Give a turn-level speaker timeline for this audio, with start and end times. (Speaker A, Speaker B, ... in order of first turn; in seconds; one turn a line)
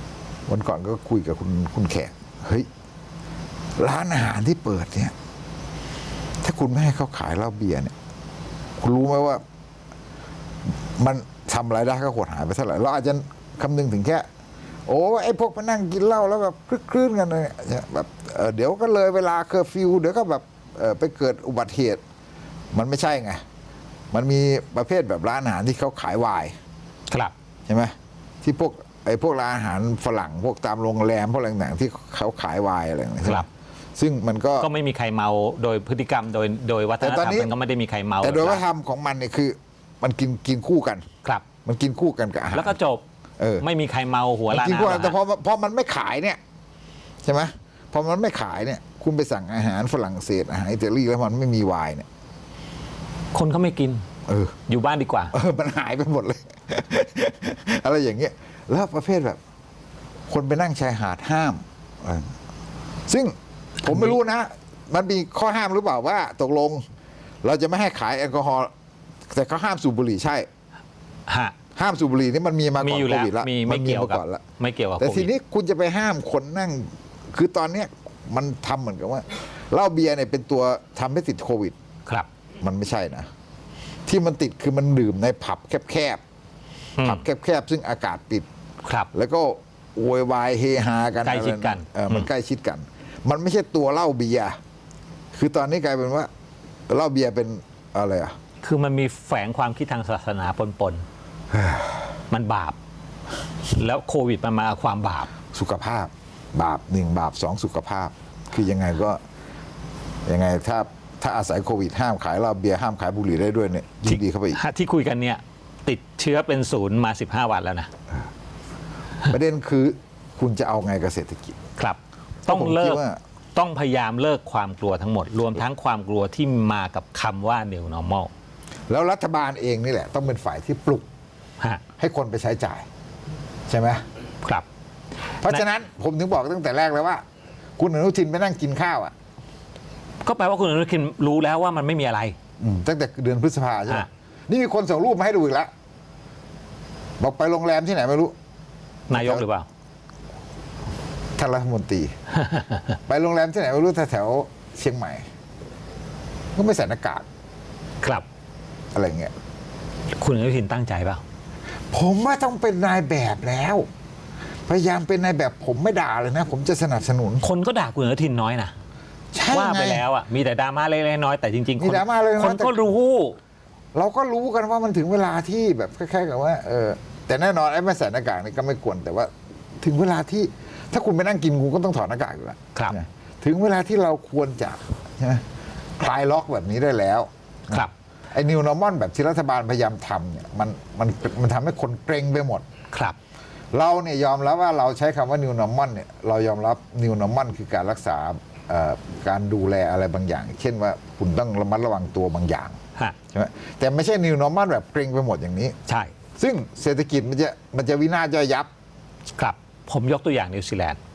Speaker A: 0.5-2.7
Speaker A: 3.8-5.1
Speaker A: 6.4-7.9
Speaker A: 8.8-9.4
Speaker A: 11.0-14.3
Speaker A: 14.9-22.0
Speaker A: 22.7-23.4
Speaker A: 24.1-26.6
Speaker B: 27.1-27.3
Speaker A: 27.7-34.7
Speaker B: 34.6-38.6
Speaker A: 37.0-37.5
Speaker A: 38.2-41.0
Speaker A: 41.6-42.7
Speaker B: 42.5-43.0
Speaker A: 43.4-43.6
Speaker B: 43.6-45.2
Speaker A: 44.5-46.4
Speaker A: 47.2-52.0
Speaker B: 53.3-54.0
Speaker A: 54.3-54.5
Speaker B: 54.7-55.3
Speaker A: 55.3-59.4
Speaker A: 60.3-62.3
Speaker A: 63.1-66.8
Speaker B: 63.9-64.2
Speaker A: 67.4-68.7
Speaker A: 69.3-70.5
Speaker B: 71.3-71.5
Speaker A: 71.8-74.4
Speaker B: 72.8-75.3
Speaker A: 75.0-81.7
Speaker A: 82.6-83.3
Speaker A: 84.1-86.2
Speaker B: 87.0-87.2
Speaker A: 87.0-88.5
Speaker B: 88.8-89.1
Speaker A: 89.1-94.6
Speaker B: 91.2-92.3
Speaker A: 95.3-96.3
Speaker A: 96.9-98.3
Speaker B: 98.6-101.0
Speaker A: 101.5-102.0
Speaker B: 102.3-102.8
Speaker B: 103.7-105.3
Speaker A: 105.5-109.2
Speaker A: 110.2-114.6
Speaker B: 114.1-117.9
Speaker A: 119.2-121.6
Speaker B: 121.8-123.0
Speaker A: 122.5-123.2
Speaker B: 123.5-128.3
Speaker A: 128.9-131.1
Speaker A: 132.0-132.9
Speaker A: 133.7-134.0
Speaker A: 135.4-137.2
Speaker A: 137.8-139.1
Speaker B: 140.2-142.4
Speaker A: 142.6-145.7
Speaker A: 147.2-148.3
Speaker A: 149.1-149.4
Speaker B: 149.1-149.7
Speaker A: 151.4-152.1
Speaker B: 152.3-152.9
Speaker A: 153.1-155.2
Speaker A: 156.5-157.2
Speaker A: 158.9-159.3
Speaker B: 160.1-161.2
Speaker A: 161.9-163.9
Speaker A: 164.7-167.4
Speaker B: 167.4-168.7
Speaker A: 169.3-170.0
Speaker B: 169.5-173.4
Speaker A: 171.8-172.8
Speaker A: 173.9-185.4
Speaker A: 186.0-192.6
Speaker B: 192.9-193.2
Speaker A: 193.7-202.8
Speaker A: 203.3-205.8
Speaker B: 205.9-206.1
Speaker A: 206.4-208.7
Speaker B: 209.3-211.0